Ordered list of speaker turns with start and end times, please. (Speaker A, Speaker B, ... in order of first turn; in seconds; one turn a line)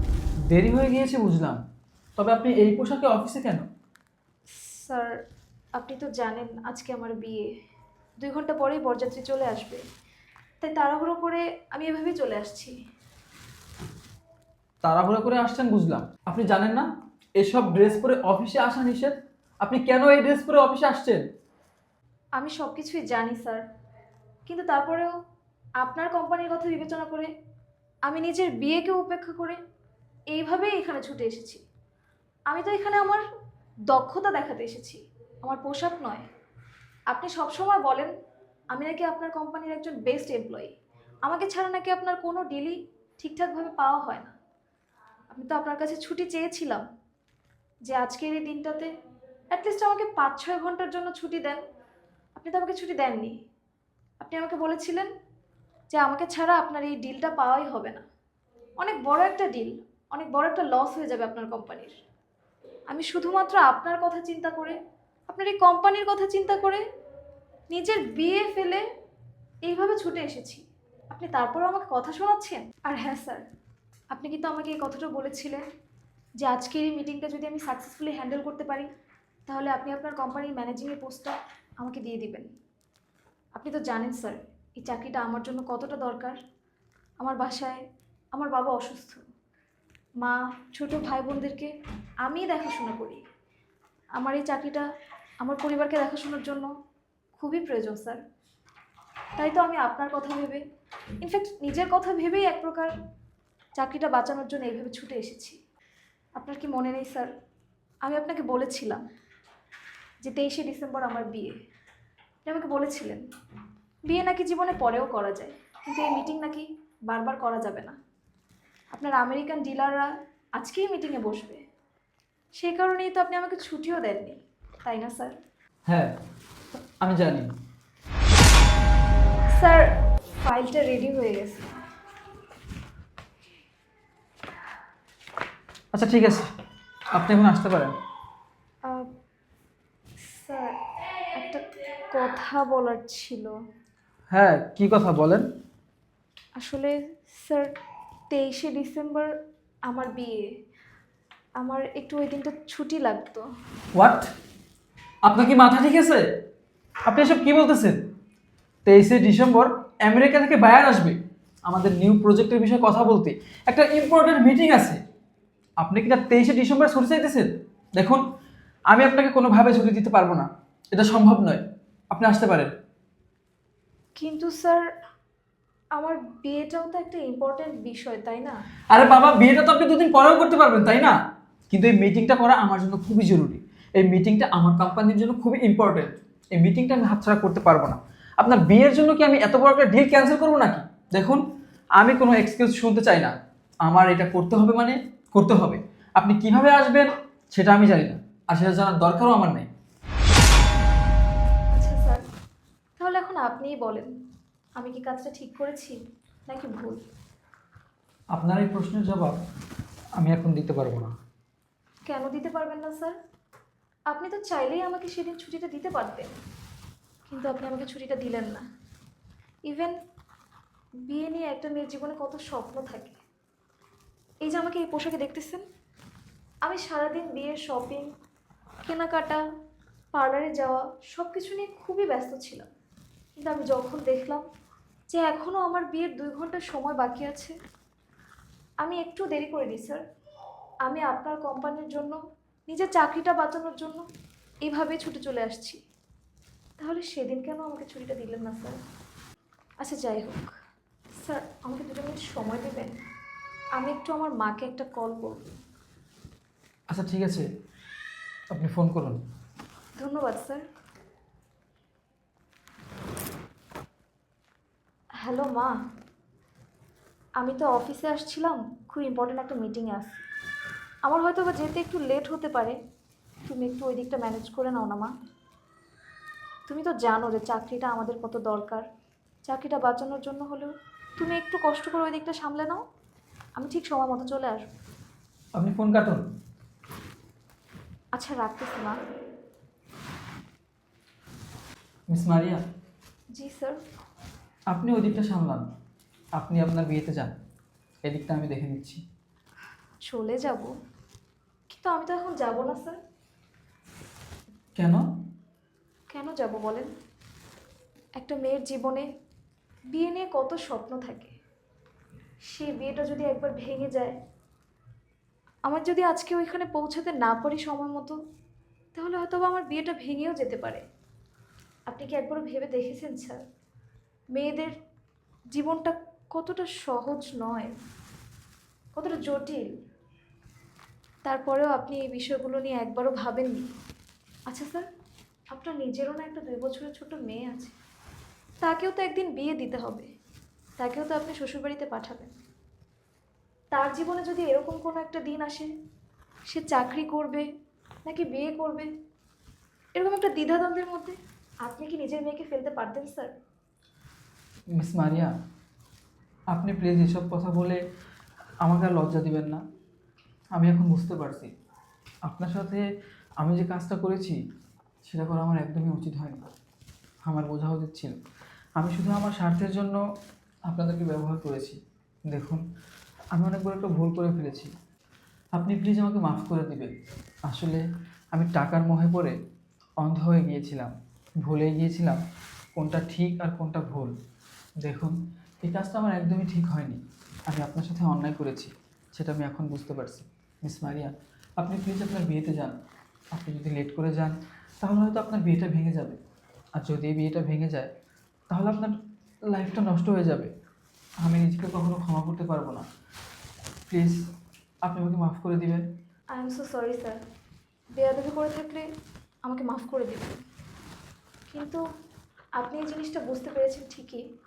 Speaker A: 0.5-1.6
Speaker A: 2.2-3.6
Speaker B: 4.5-5.2
Speaker B: 5.8-7.5
Speaker B: 8.2-9.8
Speaker B: 10.6-12.7
Speaker A: 14.8-21.2
Speaker B: 22.4-23.6
Speaker B: 24.4-25.1
Speaker B: 25.8-27.3
Speaker B: 28.1-29.6
Speaker B: 30.3-31.6
Speaker B: 32.5-33.2
Speaker B: 33.9-36.2
Speaker B: 37.1-38.1
Speaker B: 38.7-40.7
Speaker B: 41.2-44.3
Speaker B: 45.3-46.8
Speaker B: 47.8-48.9
Speaker B: 49.5-51.6
Speaker B: 52.3-53.3
Speaker B: 54.2-55.1
Speaker B: 55.9-58.0
Speaker B: 58.8-62.0
Speaker B: 62.9-64.8
Speaker B: 65.3-66.8
Speaker B: 67.7-68.8
Speaker B: 69.6-73.4
Speaker B: 74.1-75.6
Speaker B: 76.4-78.9
Speaker B: 79.5-82.5
Speaker B: 83.5-86.4
Speaker B: 87.2-87.8
Speaker B: 88.3-89.2
Speaker B: 90.2-91.7
Speaker B: 92.2-93.2
Speaker B: 94.2-94.8
Speaker B: 95.4-96.7
Speaker B: 97.4-98.2
Speaker B: 99.4-100.6
Speaker B: 101.2-102.9
Speaker B: 103.8-105.6
Speaker B: 106.4-107.3
Speaker B: 108.0-109.0
Speaker B: 110.2-111.5
Speaker B: 112.5-113.2
Speaker B: 114.1-117.9
Speaker B: 118.9-121.6
Speaker B: 122.6-125.3
Speaker A: 125.9-126.1
Speaker A: 127.0-127.5
Speaker B: 129.5-131.7
Speaker A: 135.9-136.5
Speaker A: 137.1-137.9
Speaker B: 140.2-143.5
Speaker A: 144.3-145.4
Speaker B: 146.6-147.8
Speaker B: 148.3-149.3
Speaker B: 149.9-150.5
Speaker B: 151.6-153.4
Speaker A: 153.9-154.3
Speaker A: 155.2-156.2
Speaker A: 157.1-158.0
Speaker A: 158.8-165.0
Speaker A: 165.8-168.2
Speaker A: 168.9-172.7
Speaker B: 174.2-174.8
Speaker B: 175.9-178.6
Speaker A: 178.9-181.2
Speaker A: 181.7-191.4
Speaker A: 192.0-199.7
Speaker B: 201.7-202.2
Speaker B: 203.0-204.1
Speaker B: 204.8-207.0
Speaker A: 208.3-209.4
Speaker A: 210.2-211.1
Speaker B: 212.1-213.1
Speaker B: 214.1-216.3
Speaker B: 217.3-218.6
Speaker B: 219.7-219.9
Speaker B: 221.1-223.2
Speaker B: 224.4-225.6
Speaker B: 226.6-228.1
Speaker B: 228.8-229.4
Speaker B: 230.1-232.7
Speaker B: 233.4-234.4
Speaker B: 235.1-237.5
Speaker B: 238.8-240.0
Speaker B: 240.8-244.0
Speaker B: 244.6-245.8
Speaker B: 246.8-248.8
Speaker B: 249.8-250.5
Speaker B: 251.2-253.0
Speaker B: 253.8-255.5
Speaker A: 256.9-257.4
Speaker A: 258.5-259.2
Speaker B: 260.0-260.6
Speaker B: 265.2-265.7
Speaker B: 267.4-270.2
Speaker B: 271.0-272.8
Speaker B: 273.4-275.1
Speaker B: 276.7-278.8
Speaker B: 279.4-282.8
Speaker B: 283.6-284.6
Speaker A: 285.5-286.2
Speaker B: 288.1-289.0
Speaker A: 292.1-292.6
Speaker B: 293.3-293.8
Speaker A: 294.7-295.7
Speaker A: 296.4-297.3
Speaker A: 298.0-299.0
Speaker B: 300.1-300.7
Speaker B: 301.7-303.0
Speaker A: 304.8-305.0
Speaker B: 306.1-306.9
Speaker B: 308.2-309.1
Speaker B: 309.9-311.3
Speaker B: 312.5-314.1
Speaker B: 315.6-318.1
Speaker B: 318.9-320.8
Speaker B: 321.9-323.4
Speaker B: 324.3-324.7
Speaker B: 325.5-327.7
Speaker B: 328.9-329.7
Speaker B: 331.2-333.7
Speaker B: 334.5-334.8
Speaker B: 335.5-337.7
Speaker B: 338.6-340.1
Speaker B: 340.8-342.3
Speaker B: 343.7-345.7
Speaker B: 346.5-347.4
Speaker B: 348.0-348.9
Speaker B: 349.9-353.3
Speaker A: 354.8-355.3
Speaker A: 356.5-357.8
Speaker A: 358.6-359.6
Speaker A: 360.5-361.5
Speaker A: 362.2-362.9
Speaker A: 363.4-364.4
Speaker A: 365.0-366.4
Speaker A: 367.2-368.1
Speaker A: 368.8-370.0
Speaker A: 370.7-372.6
Speaker A: 373.3-374.7
Speaker A: 375.5-376.9
Speaker A: 377.4-379.4
Speaker A: 380.0-382.2
Speaker A: 382.7-384.1
Speaker A: 384.8-392.8
Speaker A: 393.3-396.2
Speaker A: 396.8-397.9
Speaker A: 398.5-398.9
Speaker A: 399.5-400.5
Speaker A: 401.2-402.9
Speaker A: 403.9-404.2
Speaker A: 404.9-405.8
Speaker B: 406.3-407.2
Speaker B: 407.9-408.9
Speaker B: 409.4-410.4
Speaker B: 411.5-411.8
Speaker B: 412.6-414.2